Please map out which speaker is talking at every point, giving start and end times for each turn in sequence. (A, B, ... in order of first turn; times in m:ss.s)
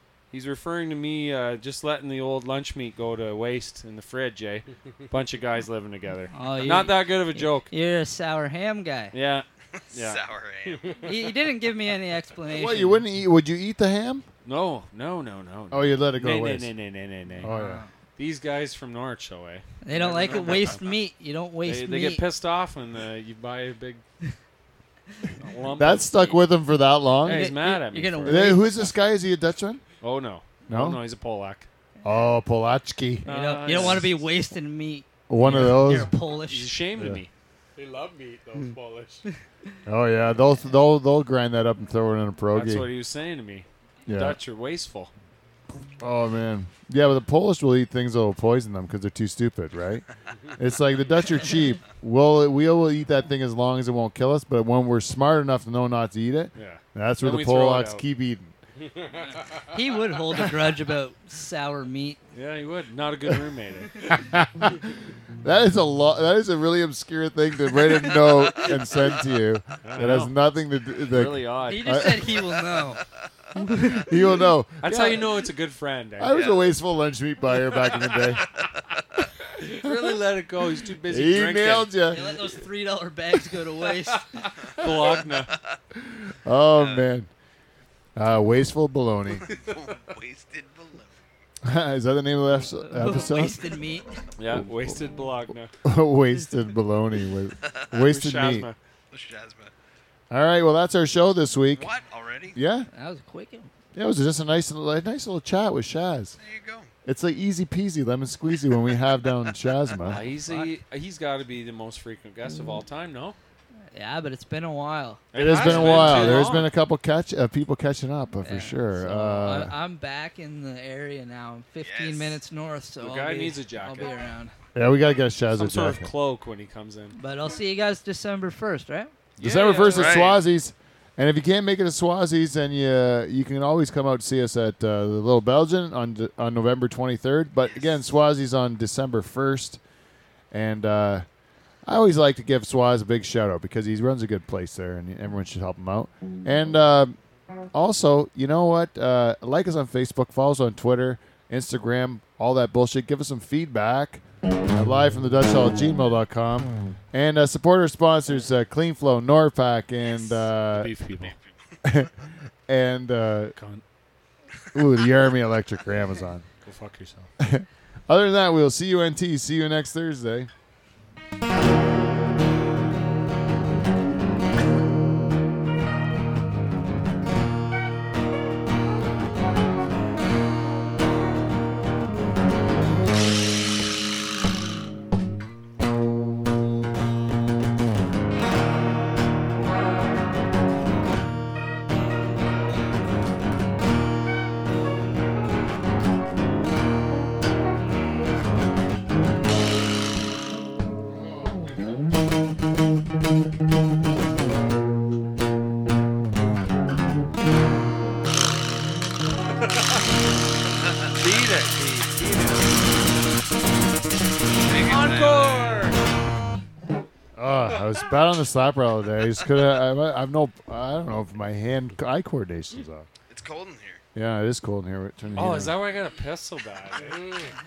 0:00.3-0:07.7 A
0:06.3-0:09.1 B
0:09.1-0:10.2 A
0:09.8-0:11.1 C
0:10.6-0:11.2 D
0:11.0-0:13.0 B
0:12.5-0:14.2 E
0:14.4-0:17.5 A
0:15.7-0:16.7 E
0:17.4-0:17.8 E
0:17.4-0:17.9 B
0:18.2-0:20.9 A
0:19.8-0:22.2 B
0:20.2-0:20.7 C
0:21.6-0:24.0 A
0:25.4-0:26.4 A
0:25.8-0:27.5 E
0:27.2-0:28.9 A
0:27.2-0:28.8 B
0:28.2-0:29.8 E
0:30.0-0:31.7 A
0:30.7-0:31.0 E
0:32.0-0:34.0 E
0:33.2-0:34.1 A
0:33.2-0:36.8 B
0:35.3-0:36.1 E
0:35.4-0:37.3 A
0:37.8-0:39.2 D
0:39.8-0:42.9 E
0:42.5-0:45.1 A
0:44.0-0:44.4 E
0:46.0-0:50.0 E
0:50.6-0:58.5 E
0:56.5-0:58.0 A
0:58.8-0:59.6 D
0:59.7-1:02.2 B
1:02.3-1:04.2 A
1:04.2-1:04.8 E
1:05.4-1:12.2 E
1:09.8-1:10.4 A
1:11.0-1:11.8 A
1:11.6-1:13.0 B
1:13.6-1:14.4 B
1:13.9-1:15.3 E
1:14.8-1:16.7 A
1:16.2-1:18.5 E
1:17.8-1:18.6 A
1:19.5-1:22.3 A
1:19.8-1:20.1 E
1:21.1-1:22.3 E
1:22.1-1:24.5 B
1:23.9-1:25.5 A
1:26.0-1:27.3 E
1:26.8-1:27.1 C
1:28.2-1:29.4 E
1:29.5-1:31.2 C
1:31.6-1:33.6 E
1:32.9-1:34.1 B
1:34.4-1:35.7 A
1:35.8-1:38.7 E
1:37.9-1:38.8 A
1:39.1-1:39.7 C
1:40.3-1:41.9 E
1:41.7-1:42.6 C
1:42.5-1:42.9 E
1:42.9-1:43.7 B
1:43.9-1:46.4 E
1:46.4-1:46.9 C
1:47.0-1:50.2 E
1:50.0-1:53.4 A
1:50.1-1:50.7 B
1:53.9-1:56.4 B
1:55.3-1:56.7 A
1:55.3-1:59.7 E
1:58.4-2:04.5 B
2:01.8-2:02.4 C
2:03.0-2:04.1 A
2:04.7-2:06.1 E
2:05.5-2:07.1 A
2:07.1-2:09.1 B
2:09.4-2:10.3 A
2:09.4-2:19.8 E
2:09.8-2:10.4 C
2:17.6-2:17.9 C
2:20.5-2:21.2 E
2:21.8-2:27.2 E
2:27.7-2:40.9 E
2:40.6-2:41.4 A
2:41.1-2:41.4 C
2:41.8-2:42.1 E
2:42.7-2:43.6 E
2:43.6-2:43.8 A
2:44.7-2:46.4 E
2:46.6-2:47.3 A
2:47.4-2:50.5 E
3:31.0-3:32.8 A
3:34.5-3:35.9 C
3:34.7-3:36.0 A
3:37.3-3:43.1 E
3:43.3-3:44.0 C
3:44.1-3:45.8 E
3:45.3-3:47.3 A
3:46.9-3:47.6 D
3:47.0-3:47.4 C